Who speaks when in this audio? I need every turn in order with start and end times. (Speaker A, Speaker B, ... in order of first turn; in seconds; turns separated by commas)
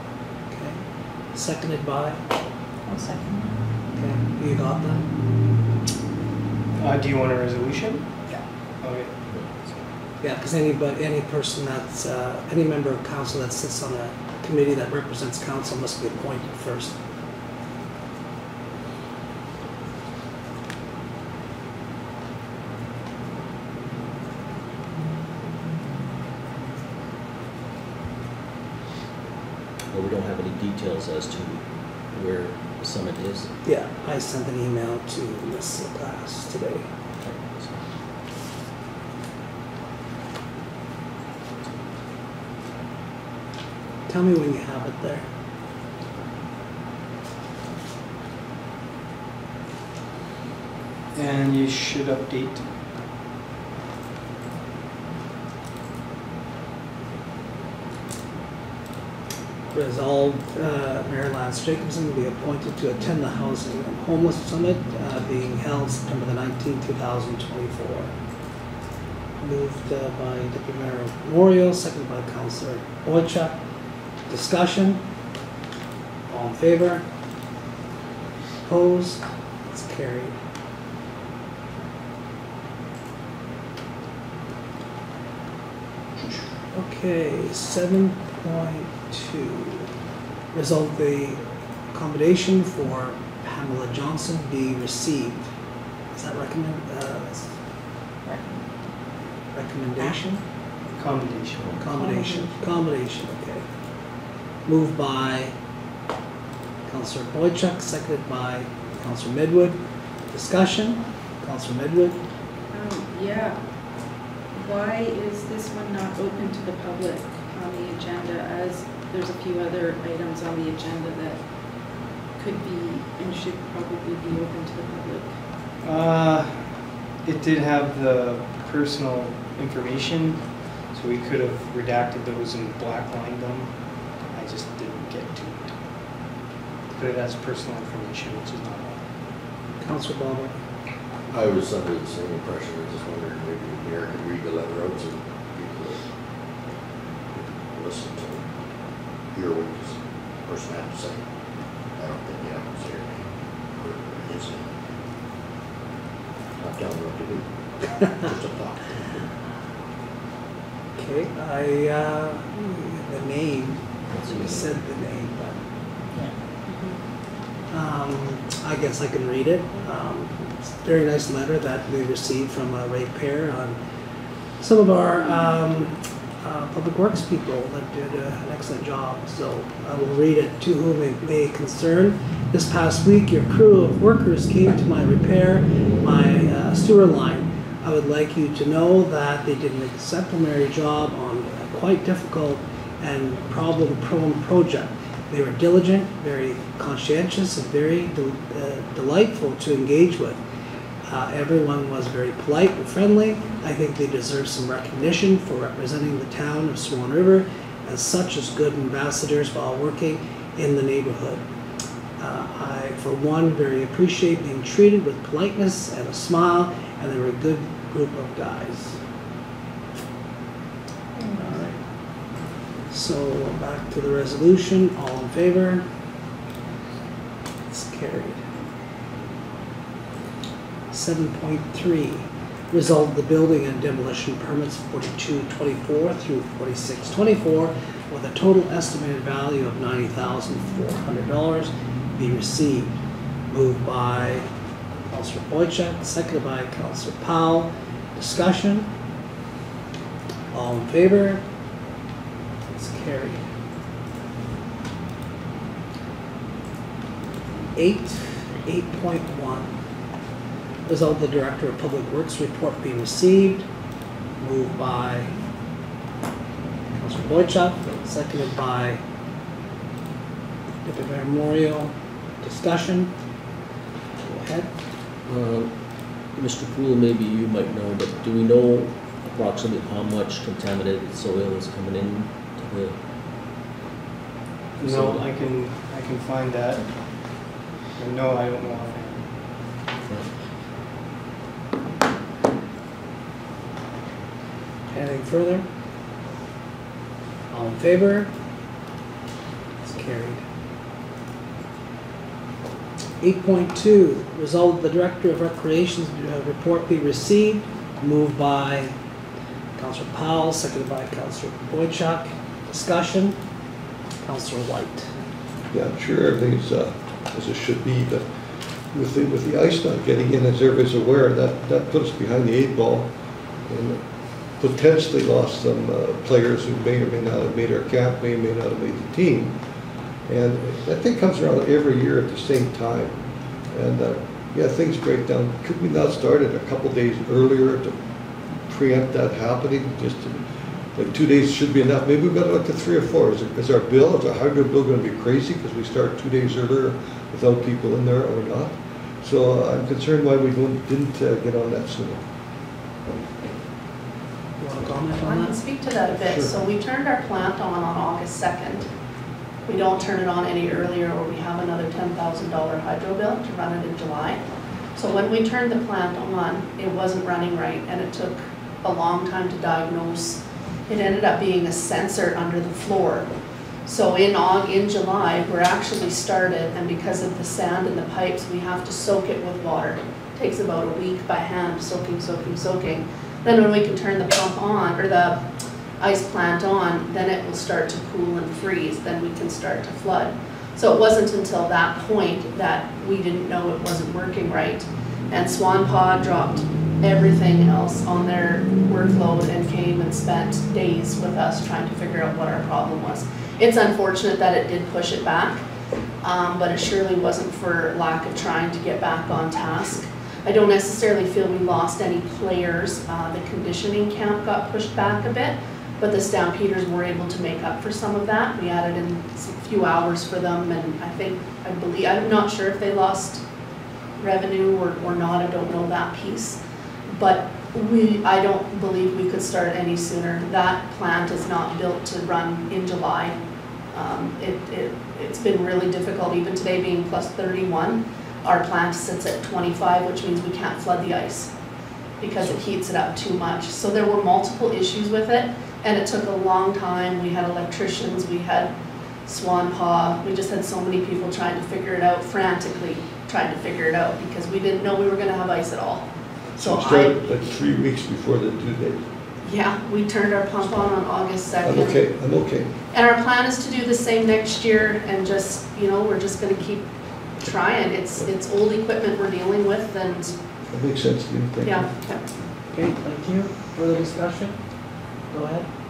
Speaker A: 0.5-2.2, Speaker B: 2.9-3.6, Speaker A: 3.9-5.0, Speaker C: 6.8-8.1, Speaker C: 8.8-9.1, Speaker D: 9.3-9.8, Speaker A: 10.2-16.9, Speaker D: 29.9-33.5, Speaker A: 33.6-36.9, Speaker D: 37.2-37.9, Speaker A: 44.1-45.3, Speaker C: 51.1-52.7, Speaker A: 59.7-68.1, Speaker A: 69.4-73.6, Speaker A: 74.3-75.0, Speaker A: 76.3-77.0, Speaker A: 78.6-80.4, Speaker A: 86.7-89.9, Speaker A: 90.5-95.5, Speaker A: 96.1-97.6, Speaker B: 98.2-98.7, Speaker A: 99.5-100.4, Speaker B: 100.0-100.3, Speaker C: 100.9-101.8, Speaker A: 101.8-103.7, Speaker B: 101.9-102.6, Speaker A: 104.7-105.5, Speaker A: 106.8-112.2, Speaker E: 112.7-113.6, Speaker E: 114.5-121.4, Speaker E: 122.4-125.3, Speaker C: 125.8-133.7, Speaker C: 134.2-135.7, Speaker C: 136.9-139.0, Speaker A: 139.8-140.5, Speaker F: 141.3-146.1, Speaker F: 147.3-148.5, Speaker F: 149.3-151.3, Speaker F: 151.9-154.7, Speaker F: 156.6-159.2, Speaker A: 161.0-165.6, Speaker D: 164.1-164.8, Speaker B: 166.1-167.0, Speaker A: 167.7-173.8, Speaker A: 174.6-200.4, Speaker A: 201.1-211.4, Speaker A: 212.2-219.0, Speaker B: 221.2-221.7, Speaker A: 221.4-221.8, Speaker A: 222.9-225.8, Speaker A: 227.7-228.4, Speaker A: 230.9-243.0, Speaker A: 243.5-244.5, Speaker A: 245.1-248.9, Speaker A: 250.5-251.4, Speaker A: 252.7-253.4, Speaker A: 257.7-259.7, Speaker A: 260.9-263.7, Speaker A: 264.4-265.3, Speaker A: 266.9-269.0, Speaker A: 270.8-273.1, Speaker A: 274.2-274.7, Speaker D: 275.2-283.0, Speaker D: 284.8-285.2, Speaker C: 284.8-289.4, Speaker A: 294.9-295.6, Speaker A: 297.5-298.3, Speaker A: 299.8-300.4, Speaker A: 303.2-308.9, Speaker A: 309.8-313.4, Speaker A: 314.2-315.1, Speaker G: 315.7-318.3, Speaker G: 318.9-323.1, Speaker G: 323.6-329.6, Speaker G: 330.3-333.2, Speaker G: 333.7-337.9, Speaker G: 338.6-352.2, Speaker A: 354.6-355.6, Speaker H: 355.2-358.9, Speaker G: 356.1-356.5, Speaker H: 359.6-364.4, Speaker H: 364.9-373.3, Speaker H: 373.8-405.6, Speaker H: 406.2-423.4, Speaker H: 424.2-433.4, Speaker H: 433.9-441.5, Speaker H: 442.2-448.7, Speaker H: 449.2-457.2, Speaker G: 456.6-459.1, Speaker H: 459.4-462.0, Speaker G: 461.6-462.8, Speaker H: 462.9-470.4, Speaker G: 470.7-471.9, Speaker H: 471.6-472.2, Speaker A: 472.7-475.7